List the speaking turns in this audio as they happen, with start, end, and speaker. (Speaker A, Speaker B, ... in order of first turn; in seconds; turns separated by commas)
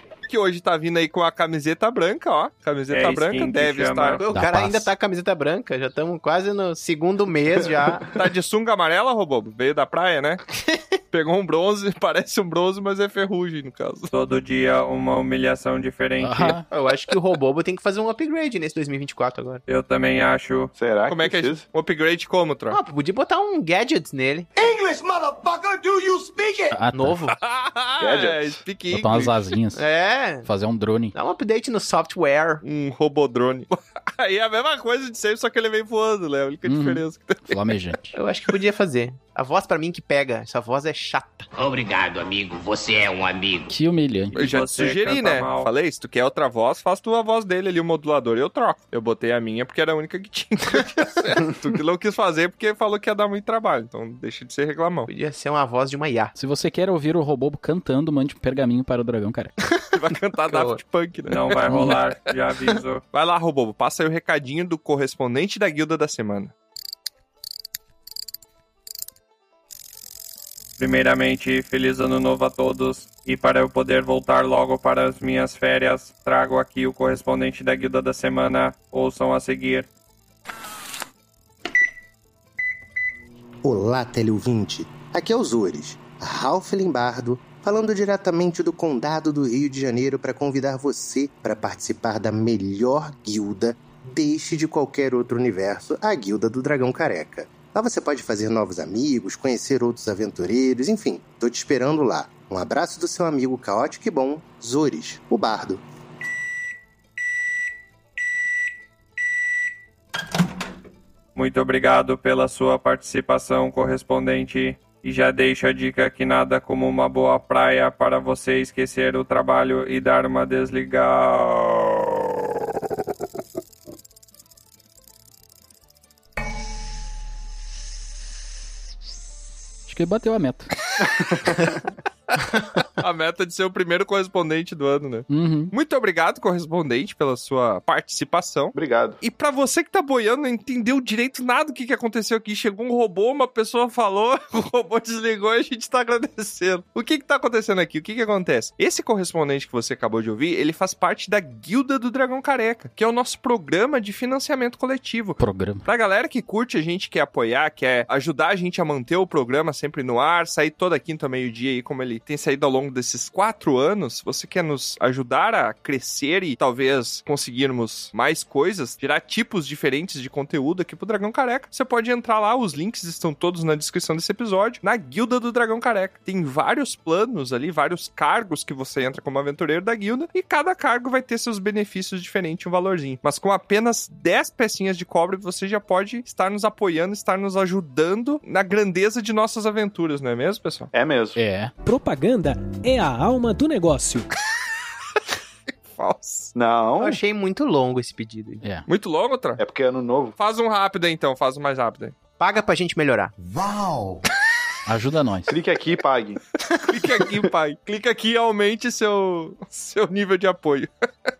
Speaker A: 0.3-4.2, Speaker B: 2.9-4.2, Speaker C: 4.2-8.1, Speaker D: 4.3-4.9, Speaker A: 8.1-10.4, Speaker A: 11.1-14.1, Speaker B: 14.1-16.6, Speaker D: 16.2-16.6, Speaker C: 16.7-19.6, Speaker B: 19.7-20.7, Speaker E: 20.8-21.6, Speaker A: 21.1-22.8, Speaker C: 22.7-24.5, Speaker F: 24.6-26.8, Speaker D: 26.7-27.1, Speaker C: 26.9-27.4, Speaker A: 27.4-29.5, Speaker E: 28.0-28.6, Speaker D: 28.9-29.8, Speaker C: 29.8-30.5, Speaker D: 30.4-31.1, Speaker C: 31.1-32.6, Speaker A: 32.6-37.6, Speaker D: 36.6-38.1, Speaker C: 38.1-41.5, Speaker G: 41.5-43.7, Speaker D: 43.7-44.4, Speaker A: 44.3-55.1, Speaker B: 44.4-45.7, Speaker C: 55.1-56.3, Speaker D: 56.4-59.5, Speaker A: 60.0-61.9, Speaker C: 60.5-60.8, Speaker B: 61.3-63.0, Speaker D: 61.7-62.0, Speaker A: 63.1-66.5, Speaker B: 70.8-79.8, Speaker H: 83.6-105.8, Speaker B: 111.3-122.1, Speaker D: 129.9-130.7, Speaker E: 131.0-131.6, Speaker A: 133.0-190.9, Speaker D: 135.3-135.7, Speaker E: 138.7-139.2, Speaker D: 155.4-155.8, Speaker E: 190.9-191.4, Speaker D: 191.3-191.7, Speaker I: 191.8-194.3, Speaker A: 195.9-196.5, Speaker E: 196.5-197.2, Speaker C: 197.0-198.6, Speaker A: 198.9-199.6, Speaker E: 199.6-200.3, Speaker A: 200.4-202.1, Speaker C: 202.4-203.3, Speaker F: 203.4-204.2, Speaker D: 204.8-205.5, Speaker E: 205.5-206.4, Speaker A: 206.9-210.9